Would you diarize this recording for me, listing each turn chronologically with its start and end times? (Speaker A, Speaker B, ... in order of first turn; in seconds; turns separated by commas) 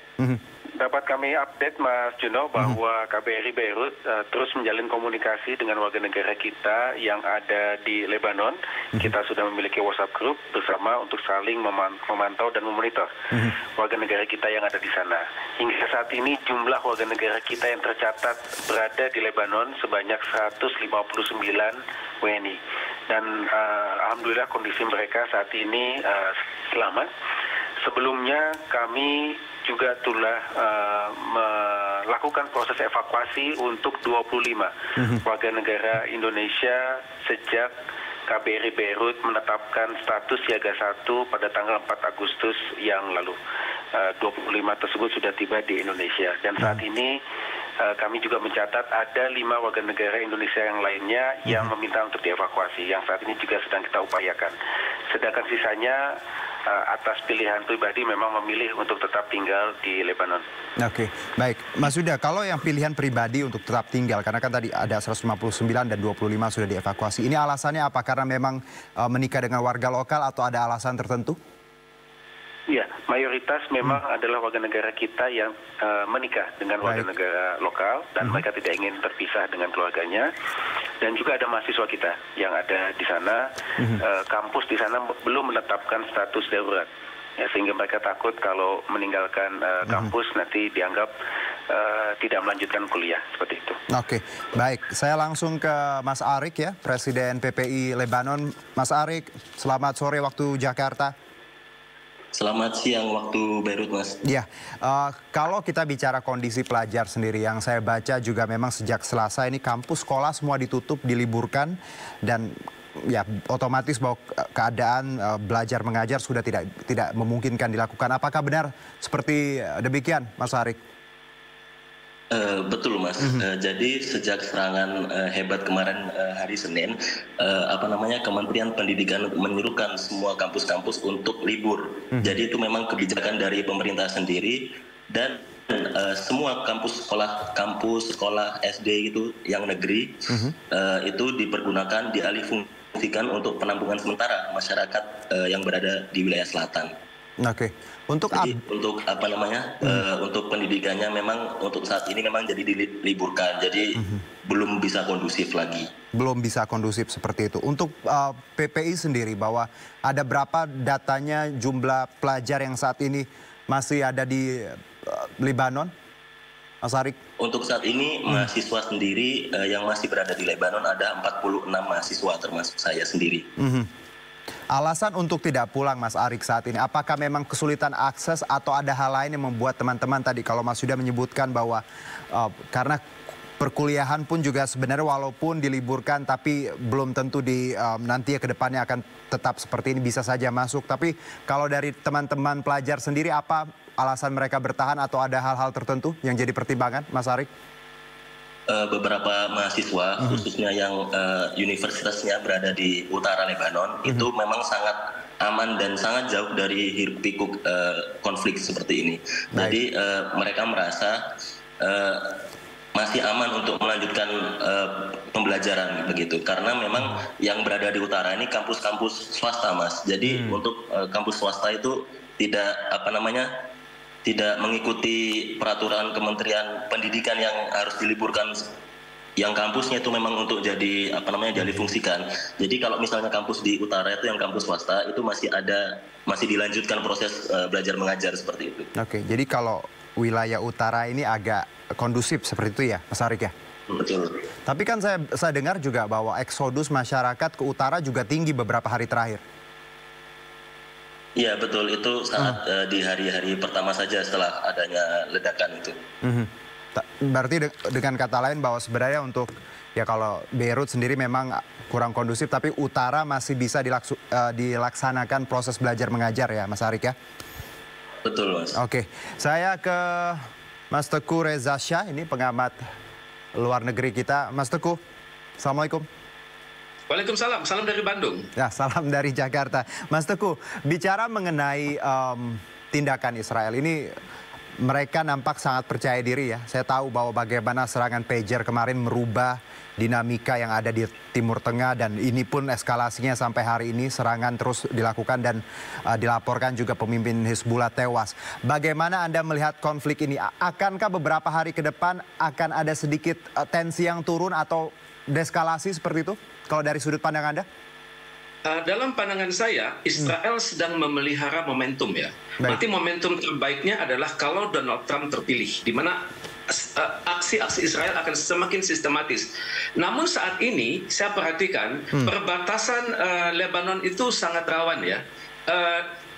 Speaker A: 0.8-27.1, Speaker A: 27.8-37.7, Speaker A: 38.3-43.4, Speaker A: 44.0-47.2, Speaker A: 47.8-54.5, Speaker A: 55.1-56.0, Speaker A: 56.7-60.4, Speaker B: 60.8-71.4, Speaker A: 72.7-80.3, Speaker B: 76.8-77.1, Speaker A: 81.0-83.5, Speaker A: 84.0-91.1, Speaker A: 91.7-93.8, Speaker B: 93.9-101.1, Speaker C: 102.3-104.2, Speaker B: 104.2-120.8, Speaker C: 122.3-140.2, Speaker B: 140.3-140.6, Speaker C: 140.7-146.9, Speaker B: 147.4-148.6, Speaker C: 148.3-155.9, Speaker B: 154.0-154.2, Speaker B: 156.1-165.9, Speaker B: 166.8-167.2, Speaker C: 167.4-173.5, Speaker B: 173.6-173.9, Speaker B: 174.7-183.0, Speaker B: 183.6-197.5, Speaker C: 198.7-211.2, Speaker C: 211.8-212.4, Speaker C: 213.0-223.5, Speaker B: 220.3-220.6, Speaker C: 224.2-228.7, Speaker C: 229.4-238.9, Speaker B: 239.0-243.5, Speaker C: 243.9-244.4, Speaker B: 244.7-249.4, Speaker C: 251.4-255.9, Speaker B: 256.2-267.2, Speaker C: 268.2-268.8, Speaker B: 268.7-272.8, Speaker B: 273.6-275.0, Speaker B: 275.6-276.1, Speaker D: 277.1-278.5, Speaker B: 278.6-284.1, Speaker B: 284.8-307.7, Speaker D: 308.7-326.1